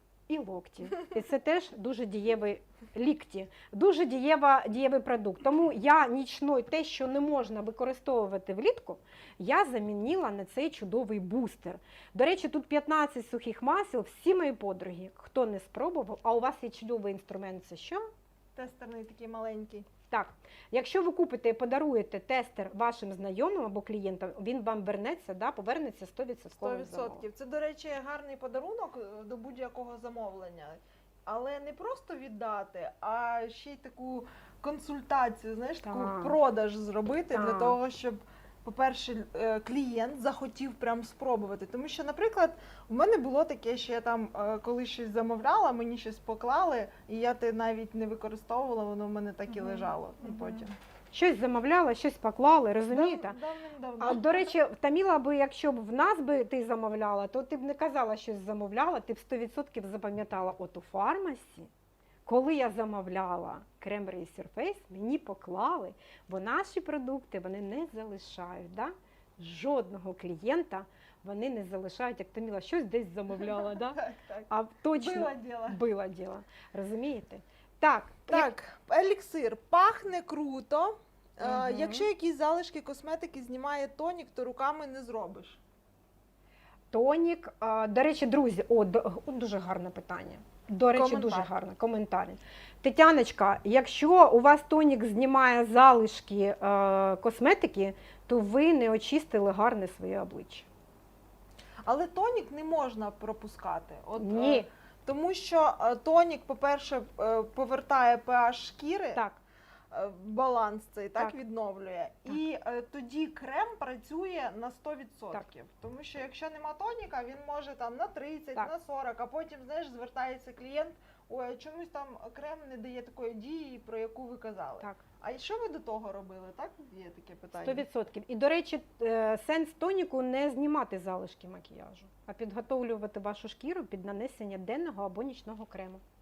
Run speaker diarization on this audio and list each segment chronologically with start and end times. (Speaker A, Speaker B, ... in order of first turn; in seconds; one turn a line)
Speaker A: 0.3-18.0
Speaker B: 18.6-19.9
Speaker A: 20.1-27.2
Speaker B: 26.6-50.7
Speaker A: 35.8-36.4
Speaker A: 37.3-37.8
Speaker A: 49.5-53.4
Speaker B: 52.9-54.5
Speaker A: 54.0-61.7
Speaker A: 62.2-78.5
Speaker B: 73.3-75.8
Speaker B: 78.3-85.6
Speaker A: 81.4-82.1
Speaker A: 86.9-100.7
Speaker B: 90.9-91.5
Speaker B: 101.8-109.2
Speaker A: 104.2-104.7
Speaker A: 109.1-109.4
Speaker B: 109.9-127.8
Speaker A: 127.5-136.0